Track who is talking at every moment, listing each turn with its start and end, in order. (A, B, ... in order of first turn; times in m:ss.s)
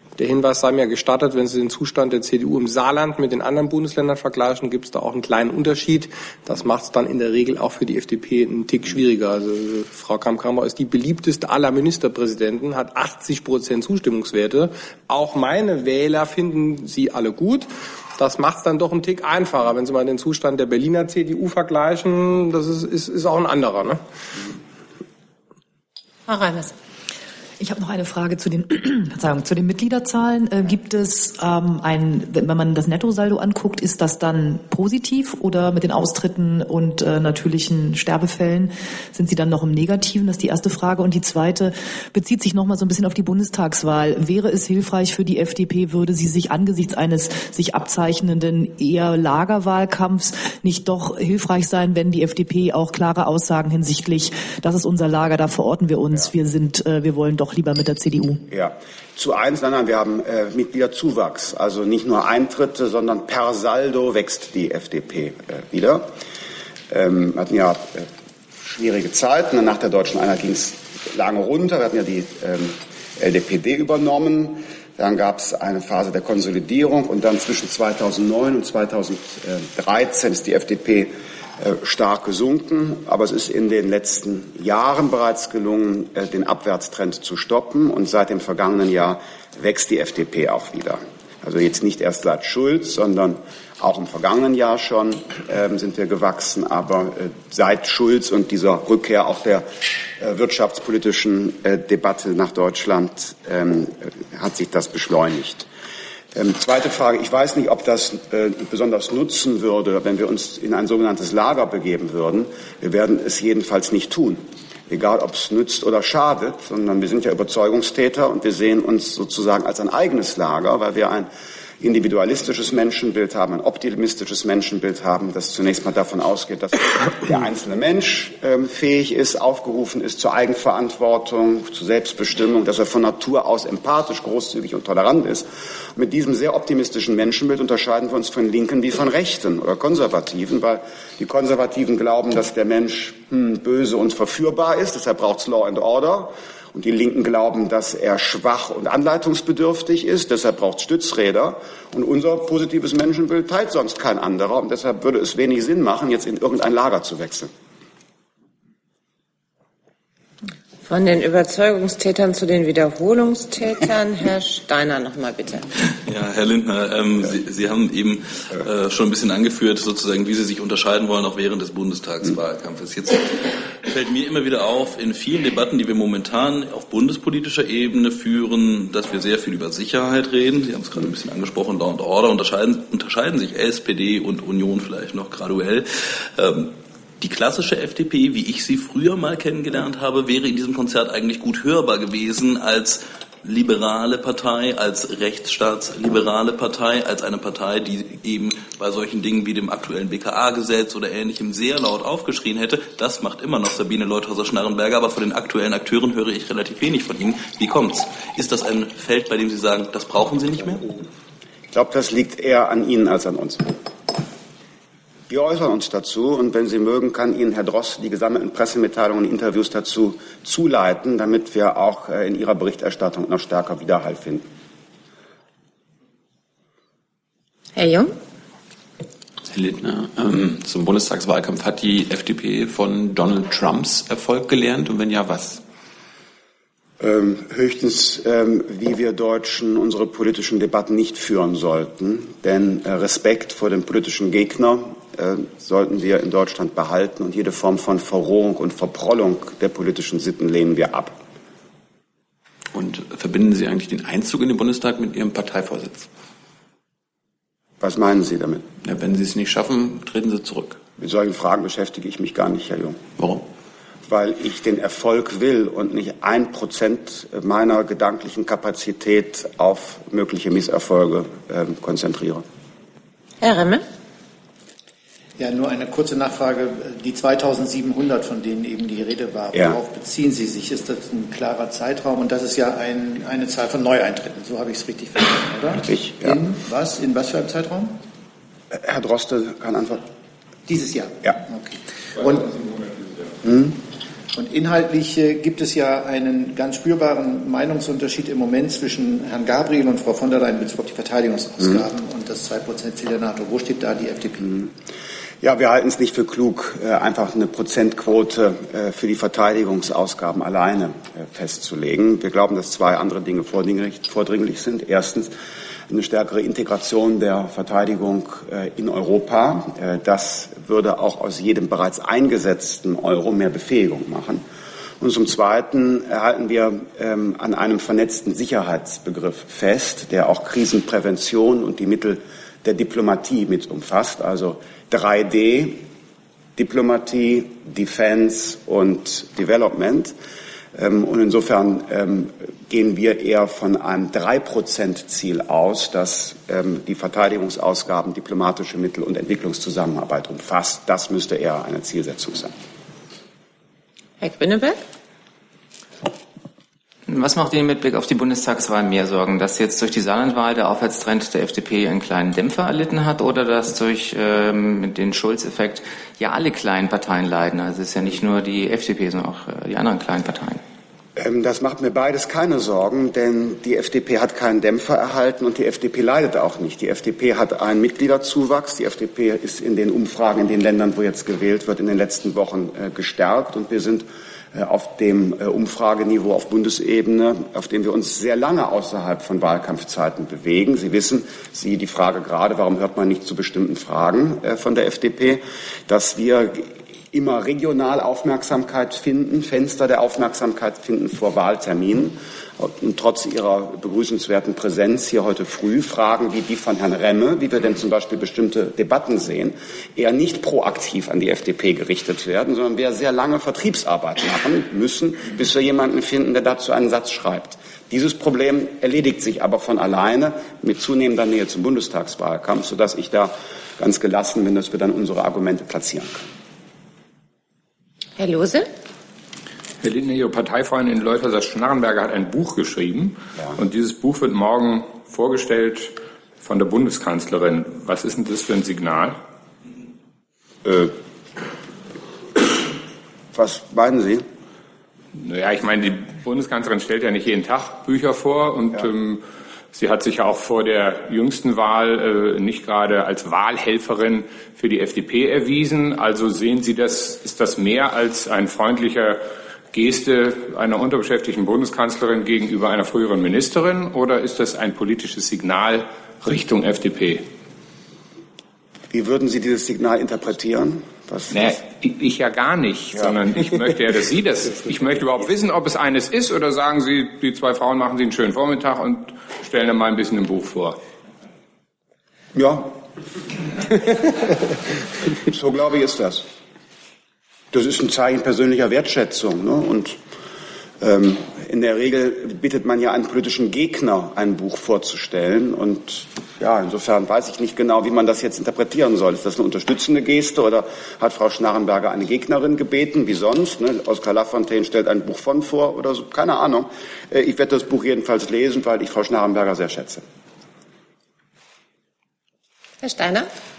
0:00.2-0:24.0 A
0:26.3-0:26.7 B
0:27.6-0:58.4 C
0:58.5-1:06.1 D
1:06.9-1:08.1 D
1:08.6-1:39.7 D
1:40.2-1:45.7 D
1:46.4-2:01.3 D
2:01.8-2:37.5 D
2:40.8-2:45.7 B
2:46.0-3:30.9 E
3:31.7-3:33.8 D
3:35.3-3:44.5 D
3:47.8-3:48.1 B
3:49.5-3:55.6 F
3:57.0-4:11.2 D
4:12.7-4:16.1 F
4:17.8-4:18.7 D
4:18.8-4:20.8 F
4:21.0-4:23.0 D
4:23.2-4:23.4 F
4:24.1-4:32.4 D
4:33.4-4:33.8 B
4:35.4-4:48.0 G
4:45.9-4:46.3 D
4:48.7-4:50.0 D
4:50.7-4:52.8 G
4:53.4-4:53.7 D
4:54.3-5:04.6 G
5:05.4-5:15.3 D
5:15.9-5:24.4 D
5:25.0-5:35.8 D
5:36.6-5:40.1 D
5:40.8-5:52.5 D
5:54.2-5:54.8 B
5:57.1-6:10.6 H
6:11.2-7:06.3 D
7:08.2-7:08.7 B
7:09.8-7:19.2 I
7:20.6-7:20.9 D
7:23.3-7:24.2 D
7:25.2-7:47.2 I
7:48.9-7:51.5 D
7:51.3-8:00.8 I
8:02.3-8:02.8 D
8:05.2-8:06.2 D
8:07.5-8:10.0 D
8:10.8-8:30.0 D
8:32.8-8:33.3 B